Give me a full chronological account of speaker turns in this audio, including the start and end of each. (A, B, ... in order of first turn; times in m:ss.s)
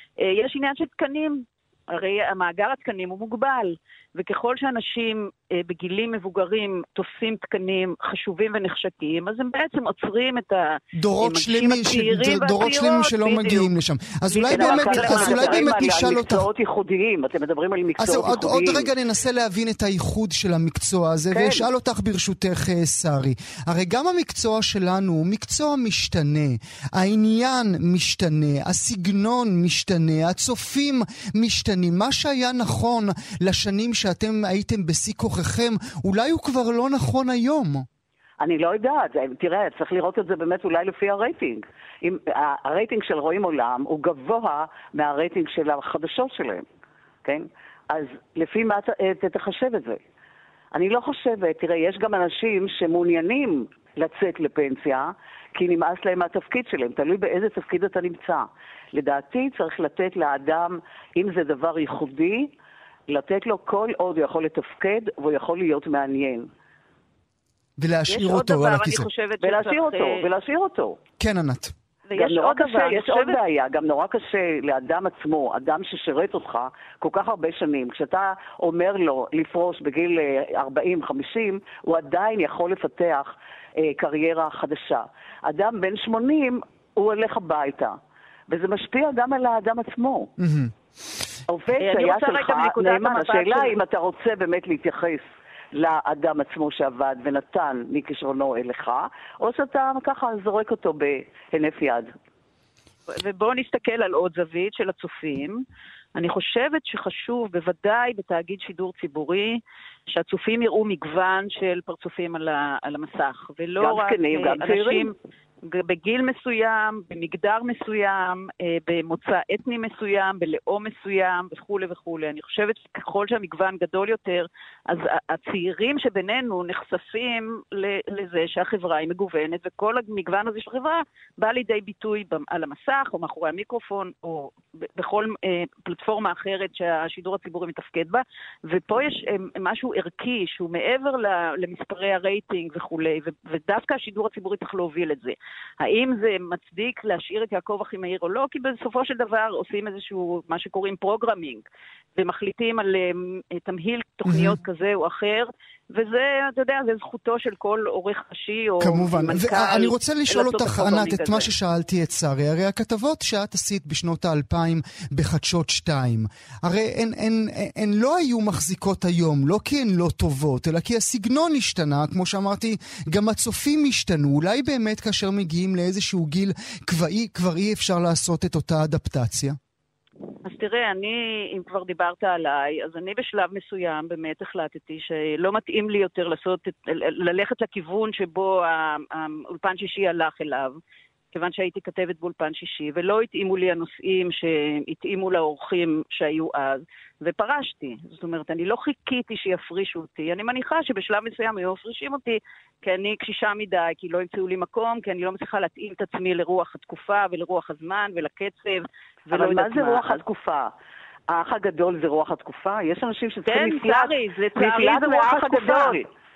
0:00.2-0:13.7 A
0:11.0-0:16.4 B
0:14.3-0:16.1 A
0:14.5-0:18.9 C
0:18.0-0:37.9 B
0:21.3-0:21.7 C
0:38.4-0:46.7 C
0:47.2-0:50.0 C
0:50.7-1:02.5 C
1:03.1-1:06.5 C
1:07.8-1:09.1 B
1:08.1-1:10.3 A
1:09.4-1:11.0 C
1:11.2-1:11.7 B
1:12.1-1:13.4 A
1:12.2-1:28.0 C
1:28.5-1:30.3 C
1:30.4-1:30.7 B
1:31.5-1:42.1 C
1:31.8-1:33.8 A
1:43.1-1:45.6 A
1:46.2-2:31.6 A
1:53.8-1:55.1 C
2:32.2-2:41.5 A
2:34.3-2:34.6 B
2:38.8-2:59.6 B
3:00.4-3:10.8 A
3:11.3-3:30.2 A
3:29.3-3:30.7 C
3:31.3-3:36.1 C
3:33.4-3:36.0 A